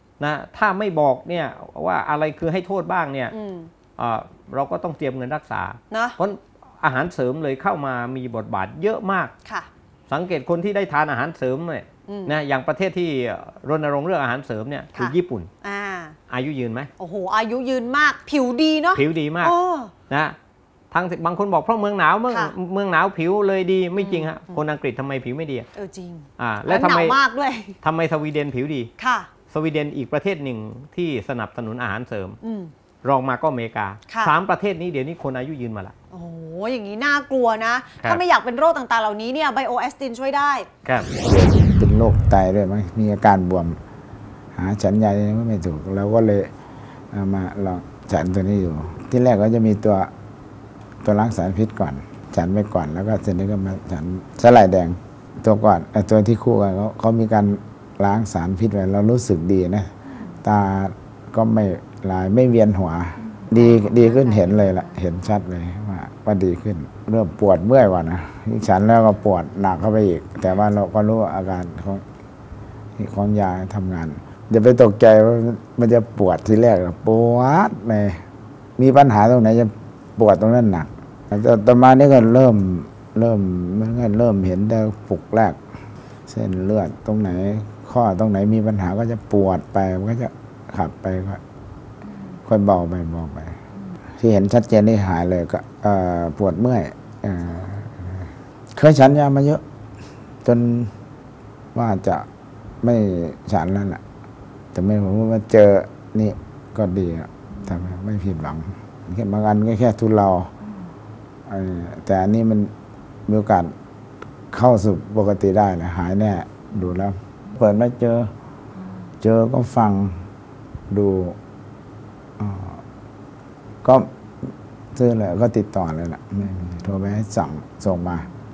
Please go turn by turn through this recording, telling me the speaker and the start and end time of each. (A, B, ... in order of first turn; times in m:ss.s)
0:00.2-0:03.3 A
0:03.3-0:03.7 B
0:04.0-0:09.3 A
0:05.9-0:06.2 B
0:10.1-0:15.5 A
0:12.1-0:12.3 B
0:15.0-0:16.2 B
0:16.3-0:16.9 A
0:17.0-0:19.9 B
0:18.9-0:19.5 A
0:20.1-0:20.4 A
0:20.9-0:25.7 A
0:24.0-0:24.6 B
0:25.7-0:27.8 B
0:26.4-0:27.2 A
0:27.8-0:28.9 A
0:29.0-0:29.3 B
0:29.5-0:32.4 A
0:32.4-0:32.7 B
0:33.0-0:35.9 A
0:36.1-0:40.7 B
0:40.8-0:41.1 A
0:41.2-0:43.8 C
0:44.5-0:46.5 C
0:47.1-0:50.1 C
0:51.0-1:12.0 C
1:13.0-1:18.2 C
1:18.8-1:25.6 C
1:26.3-1:31.4 C
1:32.4-1:33.6 C
1:34.2-1:39.6 C
1:40.4-1:40.9 C
1:41.7-1:42.3 C
1:42.8-1:44.0 C
1:44.7-1:50.5 C
1:51.5-1:52.7 C
1:53.3-1:53.7 C
1:54.5-1:58.3 C
1:59.2-2:00.2 C
2:00.9-2:01.4 C
2:02.4-2:02.8 C
2:03.8-2:08.3 C